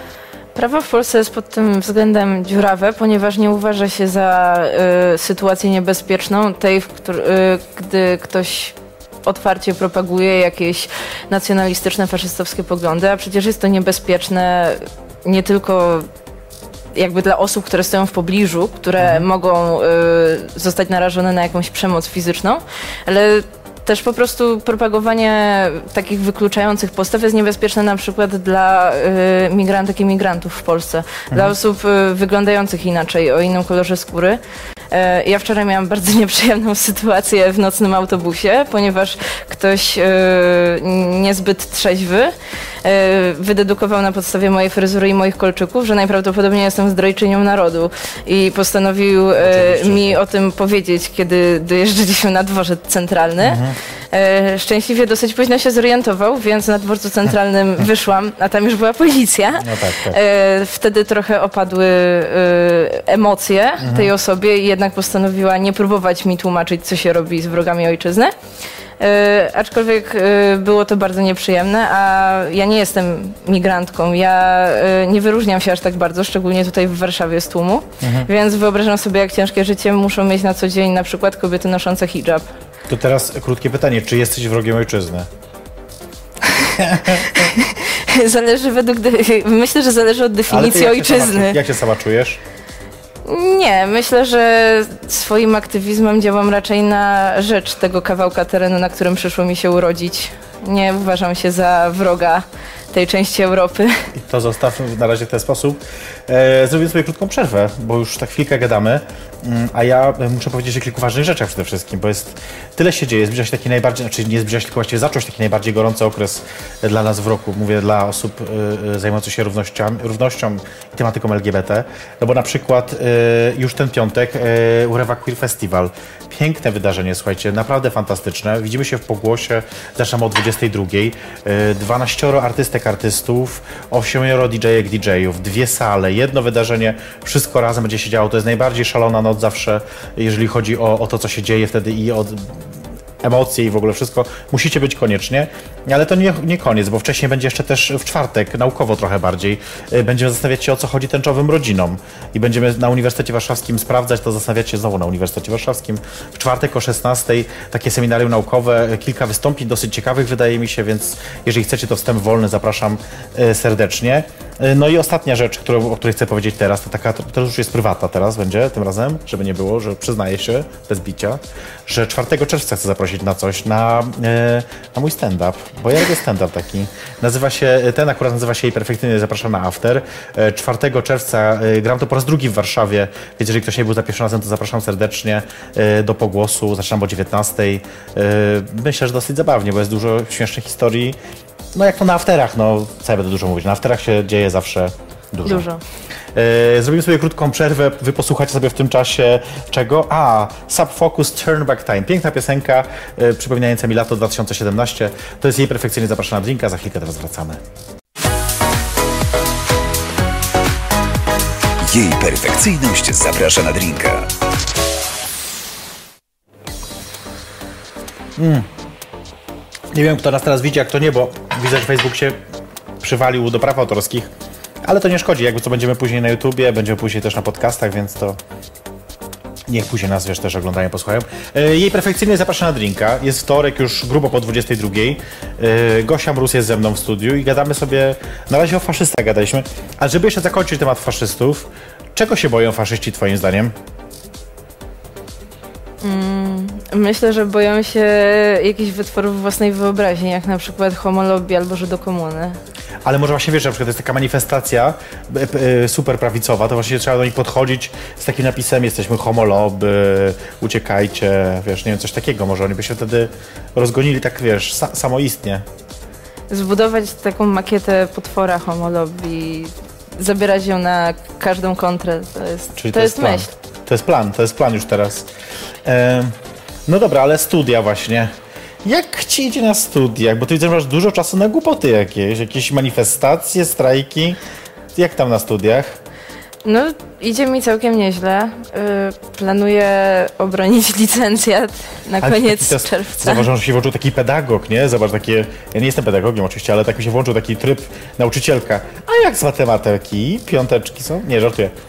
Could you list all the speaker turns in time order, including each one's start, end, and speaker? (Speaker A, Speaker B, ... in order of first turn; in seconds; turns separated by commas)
Speaker A: 0.5-16.1, Speaker A: 16.9-34.4, Speaker B: 19.0-19.2, Speaker A: 34.9-68.3, Speaker B: 49.4-50.2, Speaker B: 53.4-53.8, Speaker B: 59.6-60.2, Speaker B: 63.8-64.1, Speaker A: 69.0-82.5, Speaker B: 78.0-78.3, Speaker B: 82.9-85.3, Speaker A: 86.5-91.6, Speaker B: 86.7-87.5, Speaker B: 90.5-92.4, Speaker A: 93.2-104.1, Speaker B: 104.1-142.7, Speaker B: 143.2-191.2, Speaker B: 191.7-195.7, Speaker A: 195.4-195.8, Speaker B: 196.3-207.6, Speaker C: 211.8-214.3, Speaker B: 218.4-218.7, Speaker B: 219.9-222.4, Speaker B: 223.0-224.3, Speaker B: 224.8-228.4, Speaker B: 229.7-243.7, Speaker A: 246.0-252.6, Speaker B: 253.0-265.6, Speaker A: 266.5-273.5, Speaker B: 272.8-275.3, Speaker B: 275.8-278.3, Speaker B: 278.8-284.4, Speaker B: 284.9-286.0, Speaker A: 286.6-293.5, Speaker B: 292.2-301.7